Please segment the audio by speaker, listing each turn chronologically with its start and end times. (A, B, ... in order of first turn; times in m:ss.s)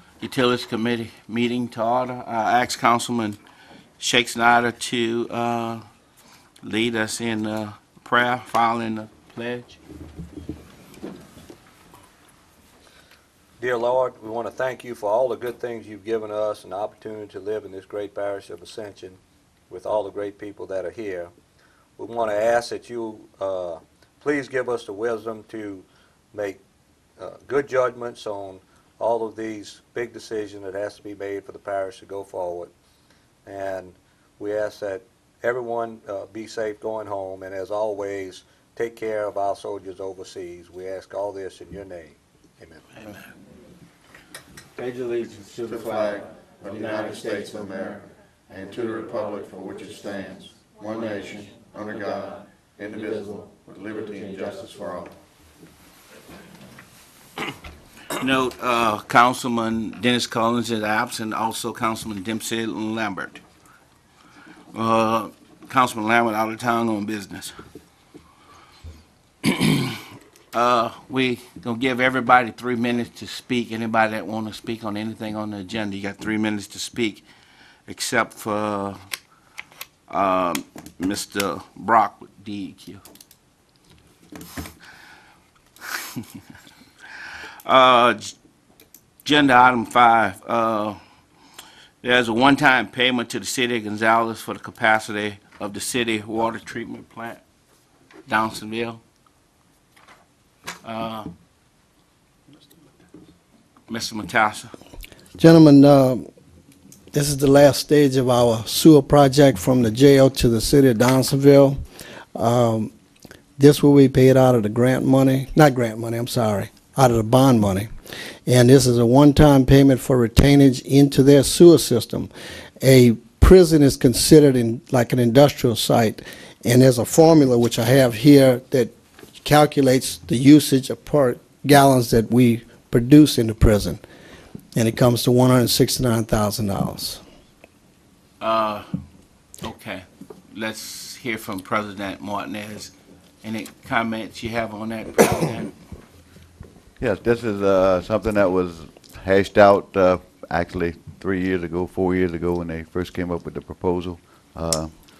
0:00.2-0:03.4 A
0:04.0-0:05.8 A
0:06.6-0:09.8 A
0:13.6-0:19.2 B
0:19.7-0:21.3 B
0:22.0-0:26.6 B
0:27.2-0:32.7 B
0:33.4-0:42.8 B
0:44.8-0:46.1 A
0:45.4-0:55.1 C
0:58.1-1:03.4 A
1:04.7-1:07.5 A
1:09.4-1:10.0 A
1:10.5-1:17.2 A
1:17.9-1:19.0 A
1:20.1-1:23.0 A
1:27.6-1:28.4 A
1:29.2-1:31.0 A
1:32.0-1:37.4 A
1:38.3-1:39.0 A
1:40.8-1:41.3 A
1:43.9-1:44.7 A
1:45.4-1:46.3 D
1:47.1-1:52.9 D
1:53.6-2:14.0 D
2:14.7-2:17.2 D
2:18.4-2:19.0 A
2:19.6-2:25.7 A
2:27.0-2:34.9 E